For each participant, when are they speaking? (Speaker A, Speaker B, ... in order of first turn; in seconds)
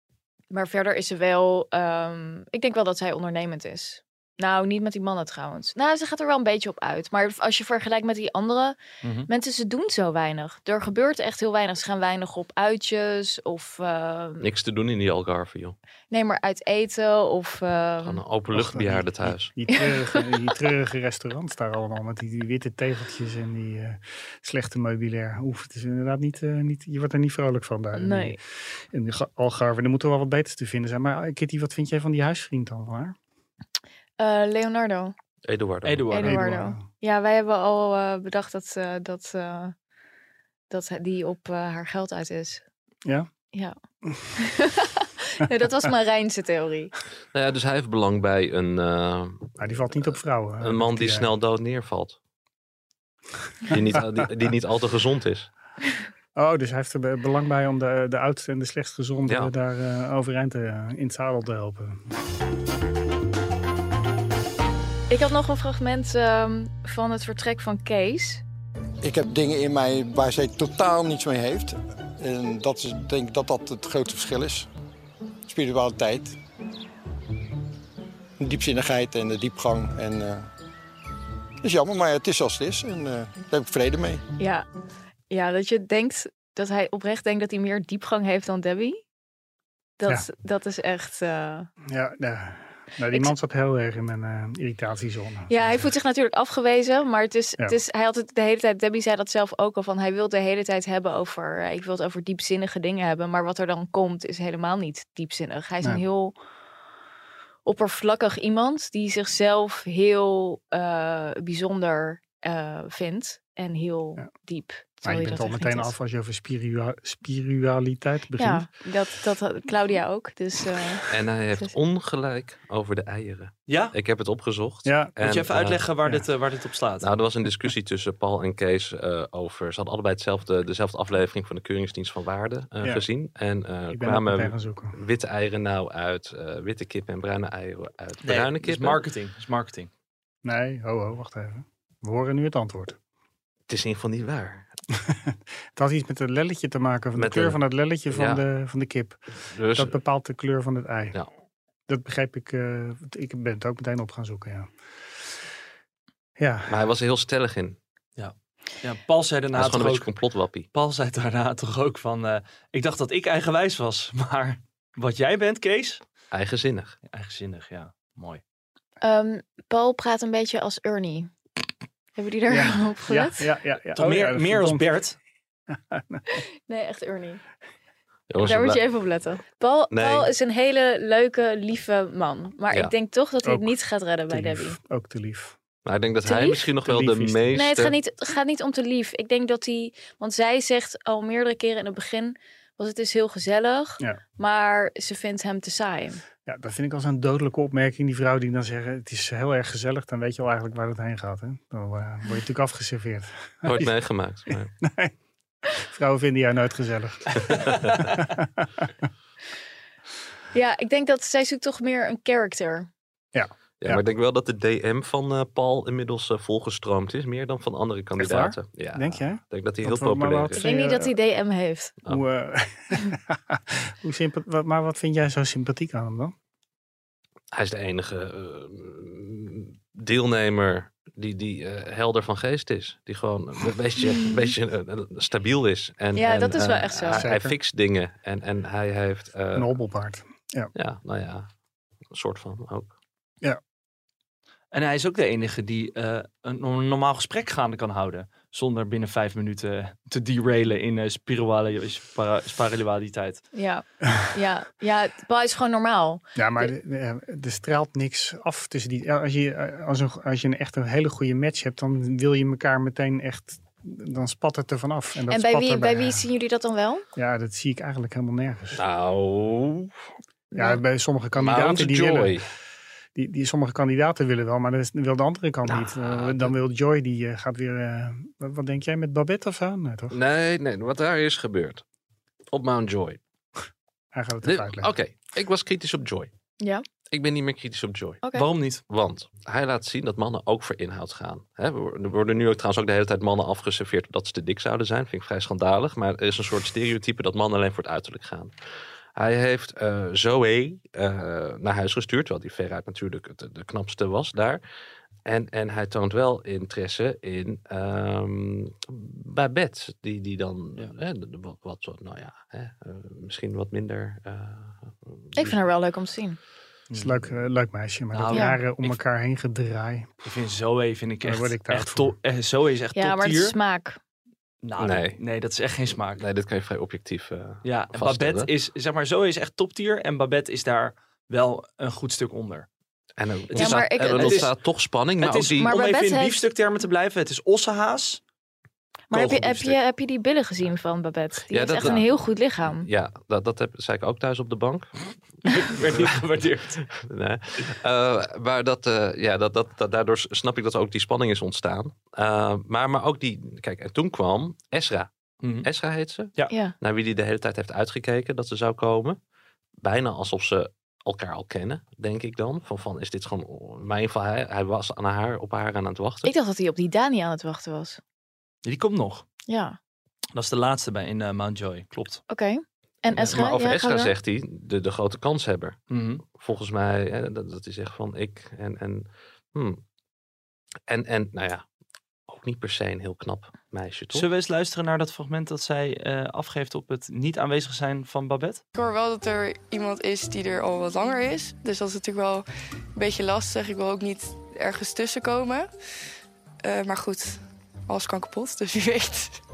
Speaker A: 0.5-8.8, 9.3-14.4, 16.1-18.2, 19.7-20.2, 27.9-28.4, 34.2-35.1, 36.1-39.7, 40.7-42.6, 44.4-46.9, 65.1-68.4, 84.4-84.7, 85.3-89.0, 90.0-91.7, 95.5-106.3, 107.7-115.9, 118.4-121.7, 169.0-171.3, 172.2-173.4, 176.3-177.4, 178.4-184.8, 186.2-186.7, 187.5-196.2, 210.5-212.9, 220.6-221.9, 236.1-237.2, 253.5-256.7, 265.3-267.0, 270.5-270.8, 286.6-286.8, 288.2-288.5, 315.4-316.4, 318.3-318.6, 322.9-324.0, 333.5-334.5, 335.6-336.4, 339.1-342.9, 356.5-356.7, 366.2-368.0, 369.5-369.8, 372.3-374.1
Speaker B: 9.0-9.3, 35.8-36.4, 123.7-123.9, 125.2-127.1, 138.2-139.9, 158.2-160.1, 160.7-166.0, 167.1-168.4, 174.0-175.2, 244.7-253.4, 288.3-288.8, 318.1-319.0, 320.2-323.6, 324.6-326.2, 327.6-332.6, 333.5-334.5, 335.2-338.2, 339.1-339.8, 345.4-346.8, 355.4-355.7, 368.6-369.2, 370.3-372.2, 375.9-376.2, 384.1-388.6
Speaker C: 14.4-15.8, 18.0-19.5, 35.5-36.2, 47.3-52.2, 53.7-55.5, 121.1-125.8, 127.0-139.0, 143.7-144.7, 147.1-147.6, 148.1-148.4, 149.5-149.9, 156.7-157.8, 159.5-160.7, 166.3-166.9, 178.3-178.8, 179.9-180.3, 185.8-187.9, 203.6-204.7, 207.5-208.0, 213.8-220.6, 227.5-239.7, 240.7-241.5, 242.1-242.9, 268.7-270.0, 271.3-272.5, 275.6-276.5, 280.1-281.8, 282.5-283.2, 284.4-286.3, 287.1-288.2, 288.9-298.5, 299.1-304.6, 305.2-315.6, 324.8-325.2, 326.1-328.5, 333.2-335.8, 341.5-342.1, 342.7-344.9, 347.0-355.1, 355.6-359.2, 359.8-366.3, 373.1-375.8, 376.3-379.8, 380.9-381.6, 382.3-384.3
Speaker D: 18.5-33.1, 36.2-36.8, 49.6-51.3, 56.3-62.0, 91.8-95.9, 115.0-118.7, 124.8-125.1, 133.9-135.0, 140.4-143.0, 145.0-149.2, 149.7-151.2, 151.9-154.7, 156.4-156.9, 172.5-174.9, 175.7-176.2, 183.4-183.7, 184.3-185.6, 186.8-187.7, 196.4-203.9, 204.5-205.1, 205.7-209.0, 213.3-214.0, 218.2-221.1, 222.1-226.3, 237.1-237.5, 239.5-240.7, 256.4-266.2, 267.1-268.8, 270.6-272.5, 273.1-280.2, 284.1-284.9, 316.9-320.1, 321.2-322.1
Speaker E: 69.0-74.7, 75.5-76.3, 78.4-80.5, 81.6-84.2
Speaker F: 388.7-395.7, 396.6-399.4